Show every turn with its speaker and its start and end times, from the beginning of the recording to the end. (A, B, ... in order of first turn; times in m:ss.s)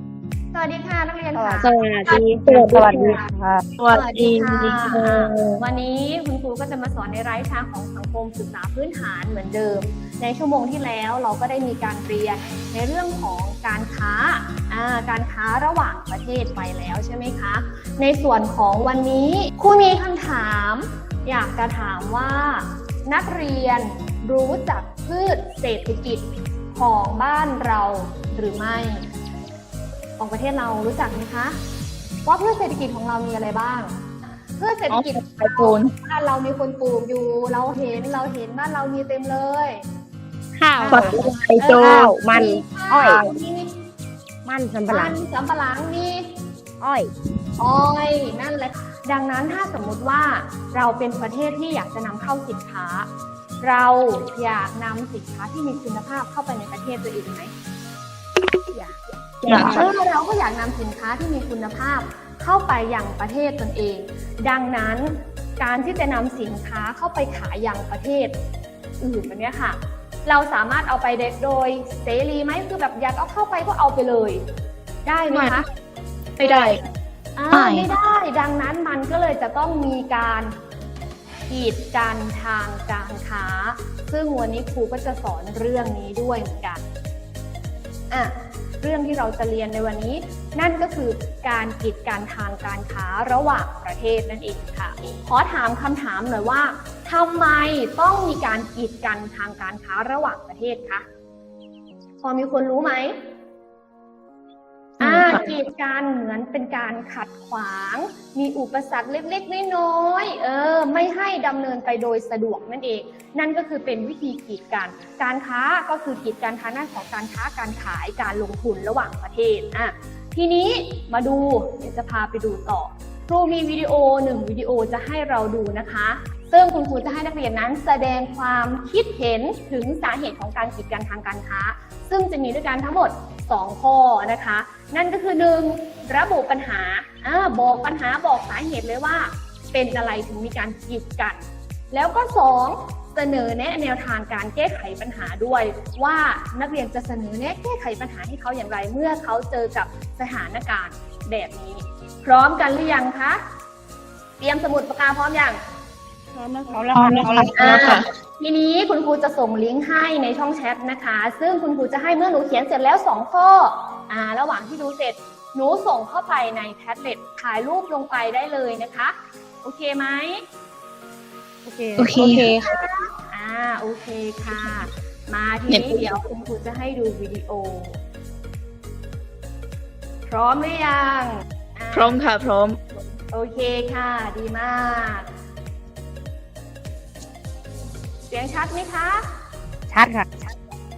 0:00.5-0:03.3 A
0:01.3-0:03.6 B
0:02.5-0:02.8 C
0:03.8-0:05.4 C
0:03.9-0:29.1 A
0:05.0-0:05.4 B
0:30.2-0:31.6 A
0:32.2-0:33.9 A
0:34.6-0:39.8 A
0:34.9-0:35.9 C
0:40.6-0:43.3 B
0:40.8-0:43.7 A
0:40.9-0:42.1 C
0:44.4-0:45.1 B
0:44.9-0:46.3 A
0:46.8-0:47.1 B
0:47.6-0:53.1 A
0:53.6-0:57.5 A
0:58.7-0:59.8 B
0:59.4-0:59.8 C
0:59.5-1:08.3 A
1:09.0-1:14.4 A
1:15.0-1:15.7 A
1:15.3-1:15.6 C
1:16.4-1:16.8 A
1:16.4-1:16.8 C
1:17.4-1:20.5 A
1:17.5-1:17.9 C
1:21.5-1:26.8 A
1:28.1-1:41.0 A
1:42.2-1:43.2 A
1:45.0-2:33.4 A
2:34.4-2:35.6 A
2:36.4-2:38.0 B
2:36.9-2:38.0 C
2:37.5-2:50.4 A
2:51.7-2:52.5 B
2:52.0-2:52.5 C
2:52.2-2:58.0 A
2:55.7-2:56.1 C
3:00.3-3:02.2 A
3:01.9-3:02.8 C
3:03.3-3:05.3 A
3:08.3-3:09.3 A
3:09.9-3:10.5 B